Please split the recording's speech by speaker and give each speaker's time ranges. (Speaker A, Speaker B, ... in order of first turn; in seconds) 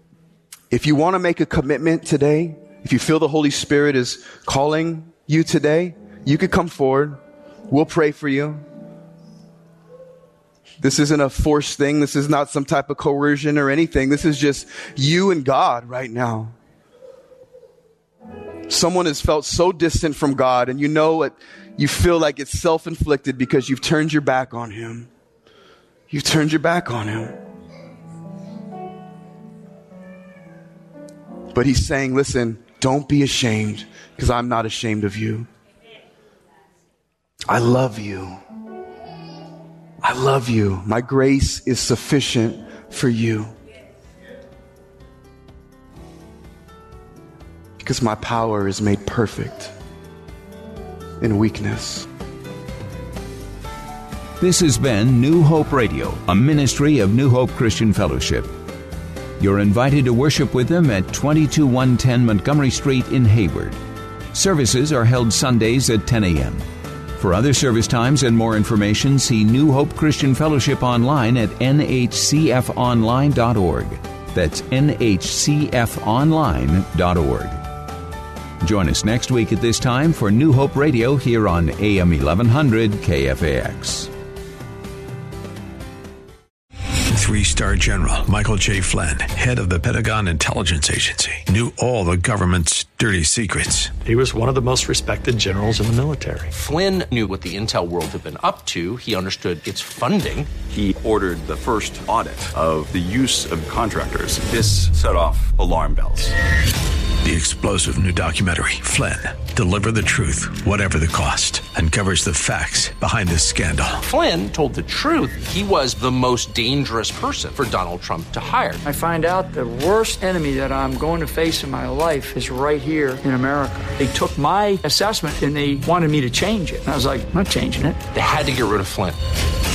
Speaker A: 0.7-8.6, 10.8-16.5, 18.7-25.1, 26.1-27.4, 31.5-35.5, 37.5-38.4, 40.0-43.5, 47.8-49.7, 51.2-52.1
Speaker B: 54.4-58.5, 59.4-63.8, 64.3-66.6, 67.2-77.6, 78.6-84.1
Speaker C: 87.1-94.2, 95.0-96.2, 107.2-114.0
Speaker D: 94.1-96.5
Speaker E: 96.5-100.5, 114.0-118.8, 128.1-129.2
Speaker F: 100.7-106.3
Speaker G: 118.8-128.0